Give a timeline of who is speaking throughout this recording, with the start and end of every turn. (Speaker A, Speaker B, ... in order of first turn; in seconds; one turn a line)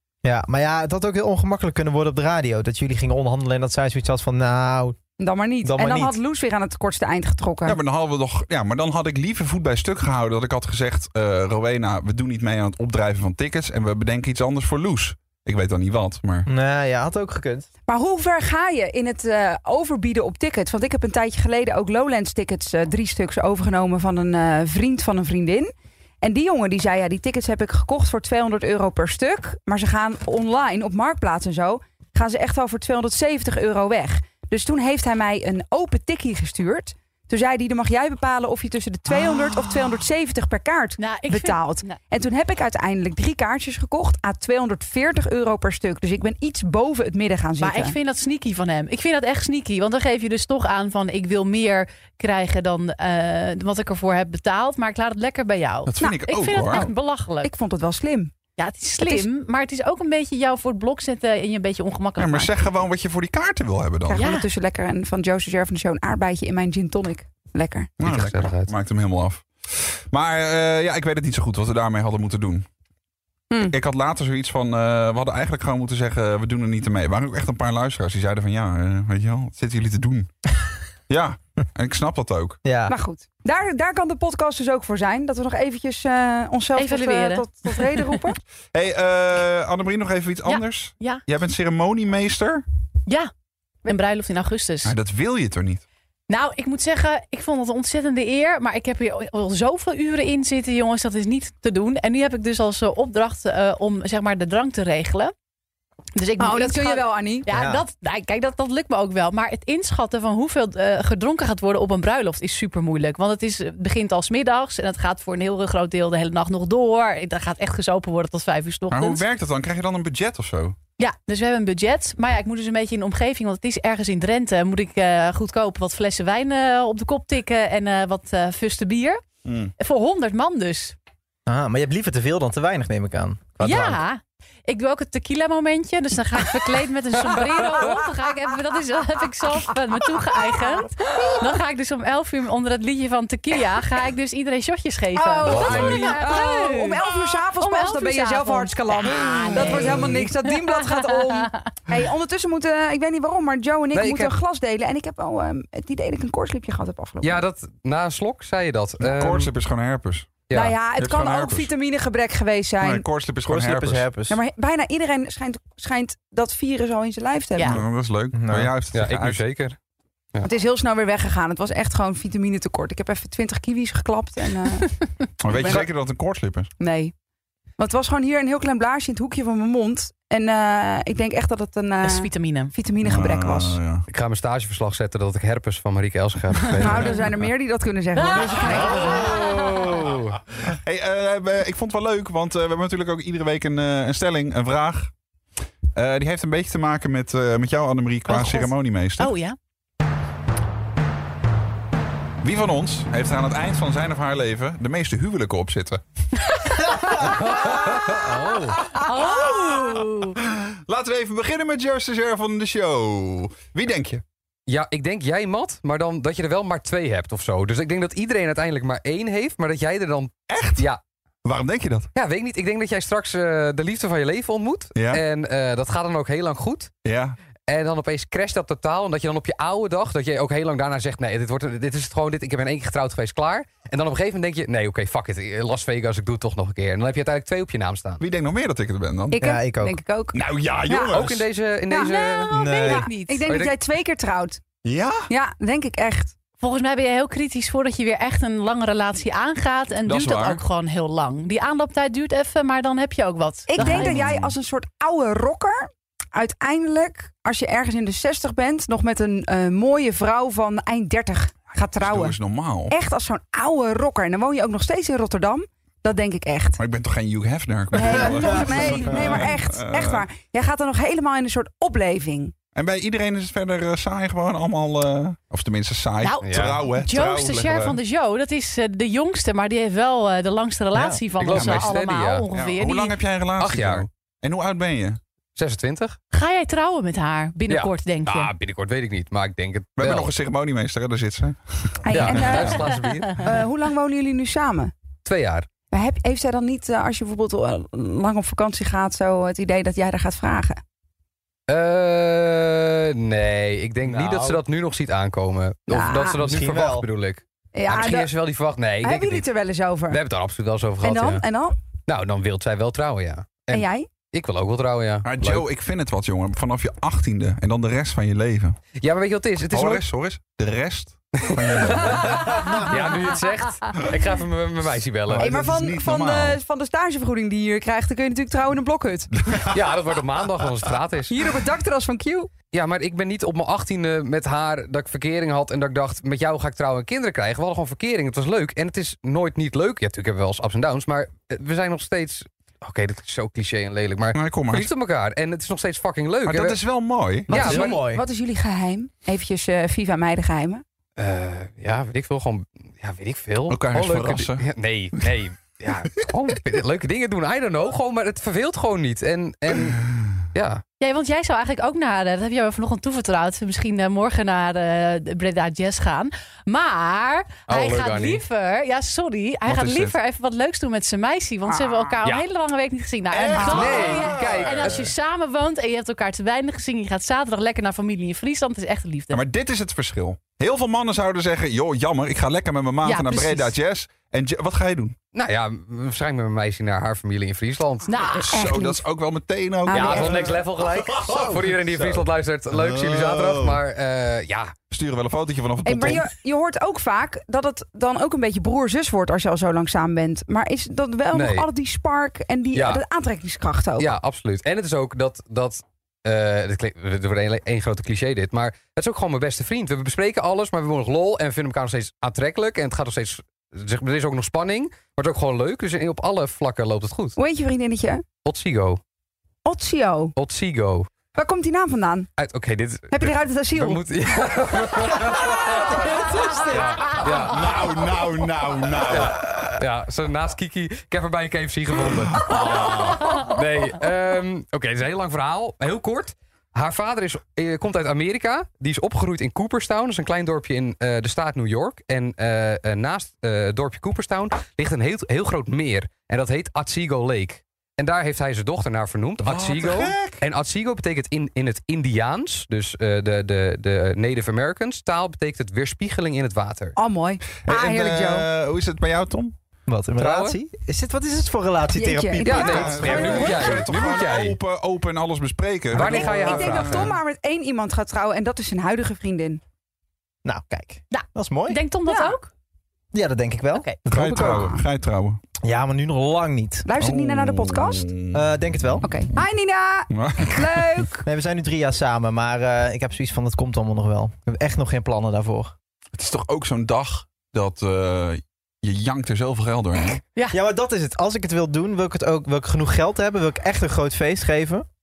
Speaker A: 0.2-5.0
Speaker B: 5.2-7.8
Speaker A: 5.6-6.2
Speaker C: 7.7-16.5
Speaker A: 16.5-17.7
Speaker B: 17.9-48.0
Speaker D: 41.0-42.0
Speaker D: 47.6-57.5
Speaker C: 55.9-56.9
Speaker B: 57.4-58.3
Speaker D: 58.6-62.5
Speaker B: 59.0-59.3
Speaker C: 62.2-64.2
Speaker B: 64.1-67.9
Speaker D: 64.1-64.5
Speaker C: 68.0-72.7
Speaker E: 68.0-68.7
Speaker C: 73.7-80.3
Speaker C: 81.1-82.6
Speaker A: 82.6-83.0
Speaker B: 82.9-88.4
Speaker D: 86.8-88.2
Speaker C: 88.7-92.7
Speaker D: 90.5-91.2
Speaker D: 93.8-94.9
Speaker C: 94.8-95.8
Speaker D: 96.3-105.3
Speaker D: 106.2-119.2
Speaker B: 106.4-107.5
Speaker A: 107.5-107.8
Speaker C: 118.9-120.8
Speaker D: 121.0-129.2
Speaker C: 129.4-129.7
Speaker D: 129.8-130.9
Speaker A: 131.5-134.0
Speaker D: 133.6-151.7
Speaker B: 145.2-157.4
Speaker E: 145.5-146.2
Speaker E: 149.5-149.9
Speaker E: 153.9-154.3
Speaker E: 157.2-159.5
Speaker C: 159.0-160.4
Speaker E: 160.5-160.8
Speaker B: 160.5-163.0
Speaker C: 161.0-161.7
Speaker C: 162.8-164.1
Speaker A: 163.5-164.4
Speaker B: 164.3-167.8
Speaker C: 167.6-169.4
Speaker A: 168.3-168.7
Speaker E: 168.9-169.8
Speaker B: 170.4-174.9
Speaker C: 175.4-176.7
Speaker B: 175.5-175.9
Speaker B: 176.8-177.1
Speaker B: 177.8-183.8
Speaker D: 182.0-182.7
Speaker C: 183.0-184.1
Speaker E: 184.1-187.2
Speaker B: 186.8-189.4
Speaker D: 188.2-189.8
Speaker C: 188.7-190.1
Speaker E: 189.8-190.4
Speaker C: 190.7-195.1
Speaker C: 196.0-199.3
Speaker D: 198.3-199.6
Speaker C: 202.4-206.0
Speaker E: 207.2-208.8
Speaker D: 208.9-210.3
Speaker C: 209.5-214.2
Speaker E: 214.7-221.0
Speaker C: 220.5-220.9
Speaker C: 221.4-222.1
Speaker E: 222.2-226.9
Speaker C: 225.0-225.2
Speaker C: 227.1-227.4
Speaker E: 227.7-238.2
Speaker C: 238.2-239.4
Speaker B: 239.3-241.2
Speaker A: 239.3-240.0
Speaker C: 240.3-241.4
Speaker E: 241.1-242.5
Speaker B: 241.9-244.6
Speaker D: 242.5-243.5
Speaker A: 242.5-243.1
Speaker E: 243.4-243.8
Speaker C: 244.8-245.3
Speaker B: 245.3-246.3
Speaker D: 246.6-254.4
Speaker C: 250.1-250.6
Speaker B: 253.7-262.4
Speaker C: 253.8-254.5
Speaker C: 262.0-262.9
Speaker B: 262.9-266.8
Speaker C: 266.8-270.2
Speaker B: 267.9-272.5
Speaker C: 272.8-278.0
Speaker D: 276.2-283.2
Speaker E: 276.4-276.8
Speaker A: 280.9-281.2
Speaker E: 281.4-282.5
Speaker C: 281.5-281.9
Speaker C: 282.5-285.2
Speaker E: 283.6-284.1
Speaker E: 285.6-286.2
Speaker D: 286.3-288.5
Speaker E: 287.7-290.3
Speaker C: 290.0-292.8
Speaker B: 292.1-294.9
Speaker E: 292.1-293.4
Speaker D: 292.9-293.3
Speaker E: 295.2-295.7
Speaker B: 295.9-300.8
Speaker E: 301.7-309.5
Speaker A: 304.1-304.6
Speaker B: 305.9-306.4
Speaker A: 306.3-307.1
Speaker B: 307.8-308.3
Speaker B: 309.0-310.2
Speaker E: 310.1-311.4
Speaker B: 311.0-311.8
Speaker E: 312.1-315.6
Speaker B: 313.7-314.1
Speaker C: 315.2-318.8
Speaker E: 319.0-320.0
Speaker C: 319.7-322.9
Speaker E: 321.4-325.5
Speaker C: 325.3-326.6
Speaker B: 325.4-329.3
Speaker C: 329.5-329.8
Speaker E: 329.7-331.4
Speaker B: 331.3-332.5
Speaker E: 332.7-346.8
Speaker C: 344.3-344.9
Speaker C: 346.5-347.5
Speaker A: 347.5-348.2
Speaker E: 347.5-348.0
Speaker B: 347.5-350.8
Speaker E: 351.2-360.0
Speaker C: 353.7-354.6
Speaker E: 360.5-360.8
Speaker D: 361.0-379.4
Speaker E: 367.7-368.4
Speaker C: 369.7-370.1
Speaker C: 373.3-375.1
Speaker B: 373.6-374.2
Speaker E: 373.6-375.1
Speaker C: 379.3-385.2
Speaker D: 383.0-383.8
Speaker E: 385.3-388.1
Speaker D: 388.1-388.6
Speaker C: 388.4-393.8
Speaker B: 388.5-389.0
Speaker B: 389.9-390.6
Speaker E: 389.9-394.7
Speaker C: 394.9-396.3
Speaker B: 395.9-404.1
Speaker E: 401.3-401.7
Speaker E: 402.7-403.0
Speaker E: 404.0-417.4
Speaker B: 417.4-418.2
Speaker E: 418.4-419.0
Speaker B: 419.6-420.3
Speaker E: 420.4-421.1
Speaker B: 421.4-422.3
Speaker E: 422.4-427.9
Speaker B: 423.1-424.0
Speaker B: 426.3-426.7
Speaker C: 427.2-429.4
Speaker E: 429.1-457.0
Speaker C: 432.3-433.4
Speaker C: 449.4-450.4
Speaker B: 457.0-458.5
Speaker C: 457.6-459.5
Speaker A: 459.9-463.5
Speaker E: 460.2-460.6
Speaker B: 461.9-463.8
Speaker E: 462.4-464.6
Speaker C: 462.6-467.1
Speaker E: 465.9-467.1
Speaker B: 465.9-469.6
Speaker A: 470.4-471.8
Speaker D: 471.1-472.5
Speaker B: 472.1-472.4
Speaker A: 473.1-474.7
Speaker C: 474.1-475.4
Speaker B: 474.1-474.8
Speaker A: 475.6-476.9
Speaker B: 476.9-478.1
Speaker C: 477.0-478.4
Speaker A: 478.3-479.1
Speaker B: 479.0-481.2
Speaker C: 480.1-481.0
Speaker A: 481.2-485.7
Speaker C: 486.1-490.2
Speaker A: 490.5-494.9